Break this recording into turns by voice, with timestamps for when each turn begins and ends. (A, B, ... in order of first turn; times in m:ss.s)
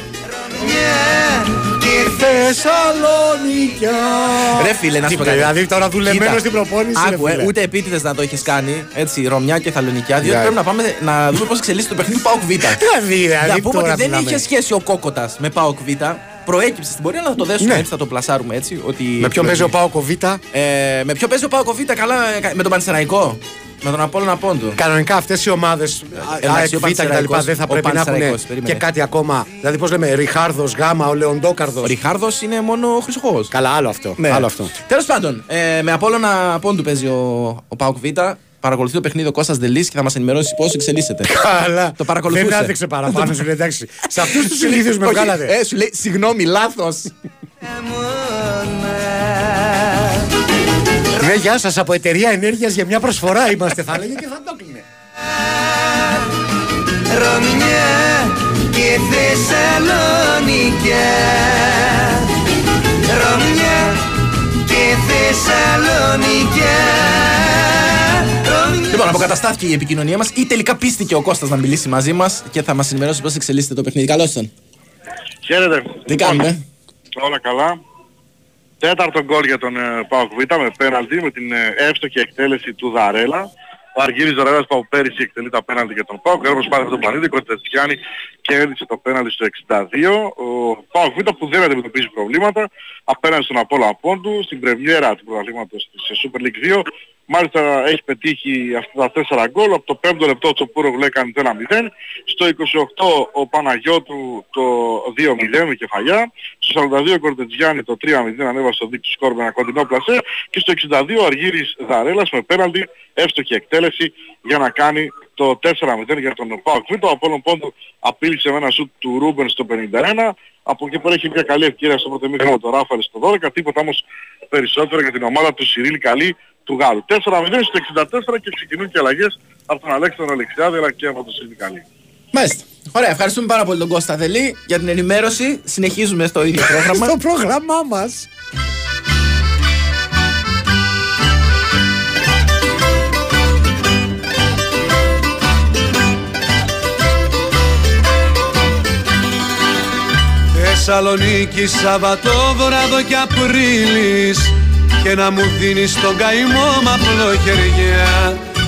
0:00.4-0:02.2 A
0:01.9-0:07.5 B
0:04.5-0:05.5 C
0:06.1-0:06.4 C
0:07.0-0:12.8 C
0:10.2-0:10.6 B
0:12.6-0:14.4 B
0:13.4-0:19.7 C
0:17.6-0:17.9 B
0:19.2-0:20.4 B
0:20.5-0:24.8 C
0:24.8-0:32.0 B
0:26.4-0:28.8 C
0:31.8-0:33.5 C
0:33.5-0:34.7 B
0:34.2-0:41.3 C
0:41.2-0:45.6 B
0:42.0-0:43.4 C
0:44.2-0:47.1 C
0:47.6-0:50.2 A
0:51.2-0:54.8 B
0:55.5-0:56.2 A
0:57.1-1:02.3 A
1:03.0-1:04.0 A
1:04.6-1:09.1 A
1:08.9-1:14.5 C
1:15.4-1:16.5 D
1:16.1-1:16.6 C
1:17.2-1:17.8 D
1:18.8-2:11.8 D
2:12.3-2:17.2 C
2:16.6-2:18.3 B
2:30.5-2:38.4 E